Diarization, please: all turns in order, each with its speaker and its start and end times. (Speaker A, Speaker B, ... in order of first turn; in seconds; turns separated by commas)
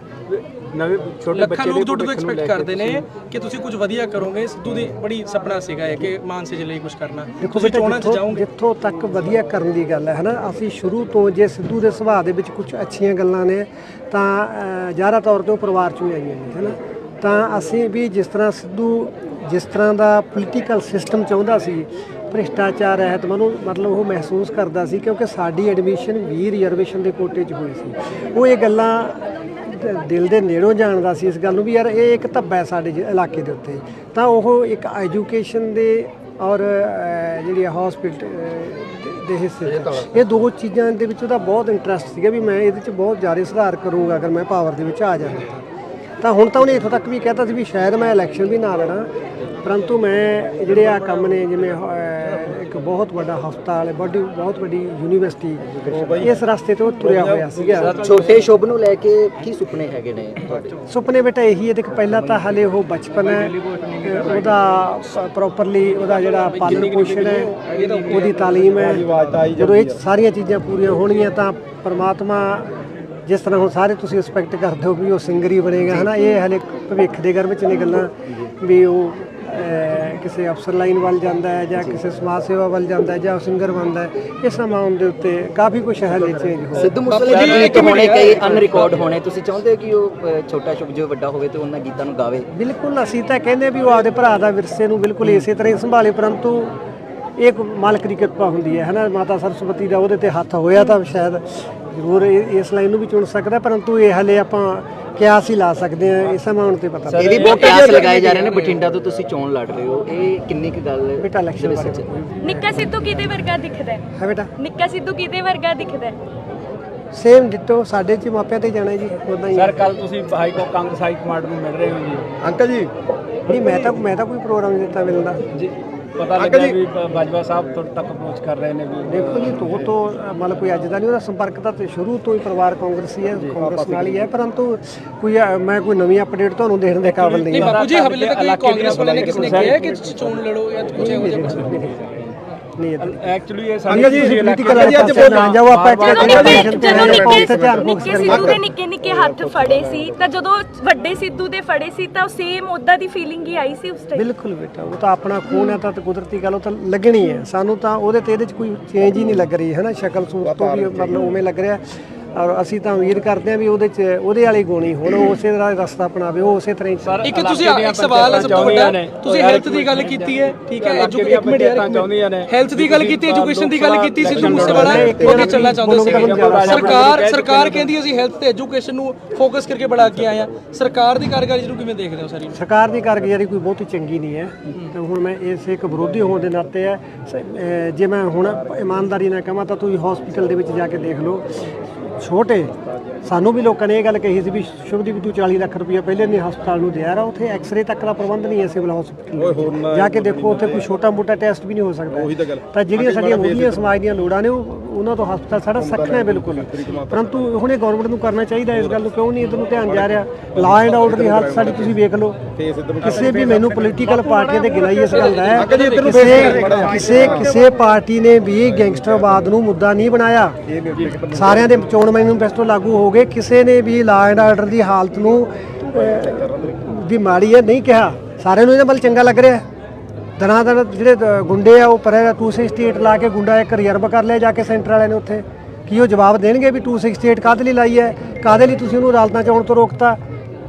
Speaker A: 0.3-3.1, Speaker B: 1.3-8.4, Speaker C: 7.4-45.6, Speaker C: 46.2-49.1, Speaker C: 49.6-58.0, Speaker D: 55.8-56.3, Speaker D: 57.1-57.9, Speaker A: 57.8-58.5, Speaker E: 58.0-60.4, Speaker C: 60.8-72.7, Speaker A: 63.2-64.6, Speaker B: 66.1-68.4, Speaker A: 67.6-68.8, Speaker D: 68.8-70.0, Speaker C: 73.2-87.0, Speaker A: 86.3-87.8, Speaker E: 86.8-92.5, Speaker B: 87.0-88.9, Speaker C: 92.5-96.7, Speaker C: 97.4-107.5, Speaker A: 107.1-107.8, Speaker E: 107.3-112.0, Speaker B: 107.3-108.8, Speaker C: 111.2-113.2, Speaker F: 112.4-114.0, Speaker C: 114.1-114.5, Speaker F: 114.6-116.2, Speaker C: 117.1-119.8, Speaker A: 119.5-122.4, Speaker D: 122.4-122.9, Speaker C: 123.5-125.4, Speaker A: 125.5-129.7, Speaker D: 126.3-126.8, Speaker C: 129.0-137.8, Speaker D: 133.6-134.2, Speaker A: 137.0-140.4, Speaker B: 137.5-141.8, Speaker D: 138.9-139.7, Speaker C: 140.9-142.0, Speaker A: 141.1-141.9, Speaker C: 142.8-143.3, Speaker A: 143.0-147.1, Speaker C: 143.9-148.6, Speaker D: 144.1-145.5, Speaker F: 146.0-154.2, Speaker D: 146.2-150.3, Speaker C: 154.1-161.8, Speaker F: 155.5-155.8, Speaker D: 160.4-161.2, Speaker C: 162.3-167.2, Speaker A: 167.0-177.9, Speaker B: 167.2-182.5, Speaker D: 174.3-175.3, Speaker C: 174.7-177.0, Speaker C: 182.5-191.5, Speaker C: 192.2-220.6, Speaker D: 199.3-200.8, Speaker D: 202.1-203.9, Speaker D: 205.7-207.4, Speaker D: 208.7-209.1, Speaker D: 209.6-214.0, Speaker B: 214.2-216.8, Speaker D: 215.4-217.6, Speaker D: 220.7-221.8, Speaker C: 221.2-229.6, Speaker C: 230.4-240.2